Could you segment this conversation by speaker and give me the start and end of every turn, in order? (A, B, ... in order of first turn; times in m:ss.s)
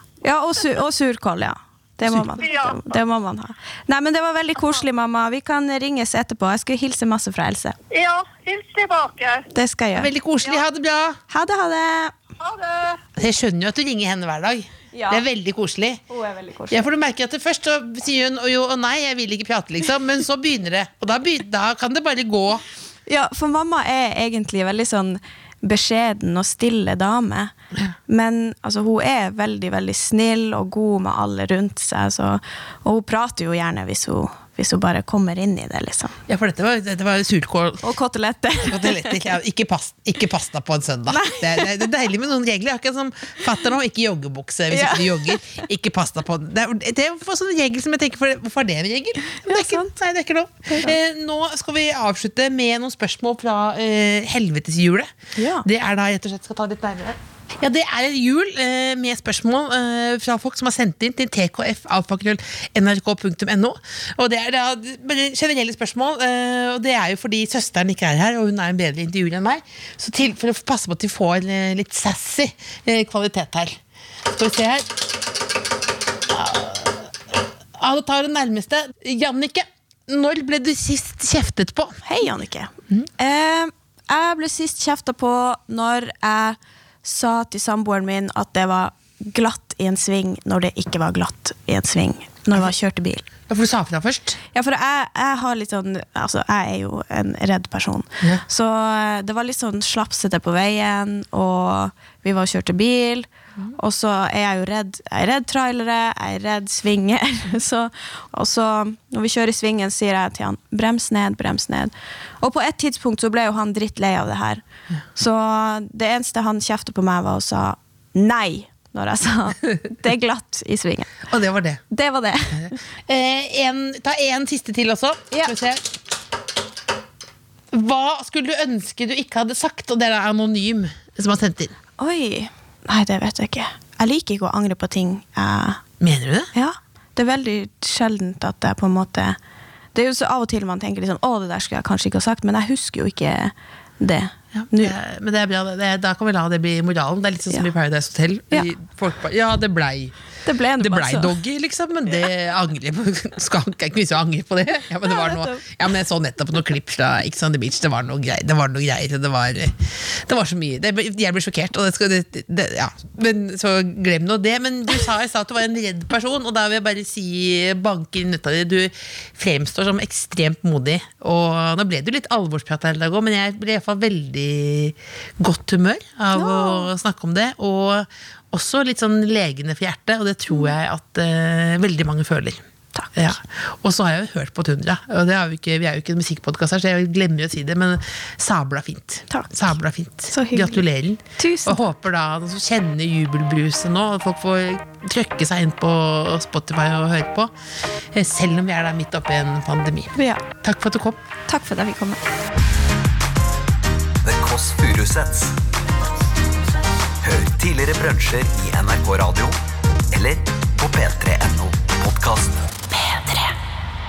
0:00.2-0:07.8 A
0:02.4-0:03.0 B
0:07.9-0:09.5 B
0:09.5-0:10.1 A
0:10.0-0:11.2 C
0:11.3-0:12.1 A
0:12.4-0:13.0 B
0:13.2-0:16.0 C
0:14.9-0:15.2 A
0:16.1-0:16.9 A
0:16.7-0:22.6 C
0:23.1-0:27.5 A
0:28.1-0:36.2 A
0:36.3-0:37.8 C
0:37.8-0:39.1 A
0:38.6-0:55.1 C
0:41.1-0:41.8 A
0:44.7-0:45.6 A
0:49.4-0:49.9 A
0:50.7-0:51.0 A
0:55.4-0:55.7 A
0:55.6-1:15.0 C
1:16.3-1:22.0 C
1:22.0-1:33.3 A
1:33.5-1:34.4 C
1:34.5-1:54.6 A
1:55.1-2:01.2 A
2:01.3-2:01.8 C
2:01.9-2:02.8 A
2:02.6-2:05.8 C
2:07.7-2:11.7 C
2:12.0-2:15.8 A
2:16.0-2:16.5 C
2:16.5-2:19.4 A
2:19.9-2:24.9 A
2:24.5-2:30.1 C
2:30.4-2:31.4 A
2:30.8-3:02.6 C
2:35.0-2:35.6 A
2:56.3-2:56.9 A
3:02.9-3:03.3 A
3:03.1-3:17.5 C
3:09.3-3:09.7 A
3:10.3-3:10.8 A
3:11.4-3:11.8 A
3:18.1-3:21.2 C
3:20.2-3:20.4 A
3:21.5-3:22.2 A
3:24.2-3:25.6 D
3:27.2-3:29.6 D
3:30.1-3:32.8 D
3:32.9-3:33.5 C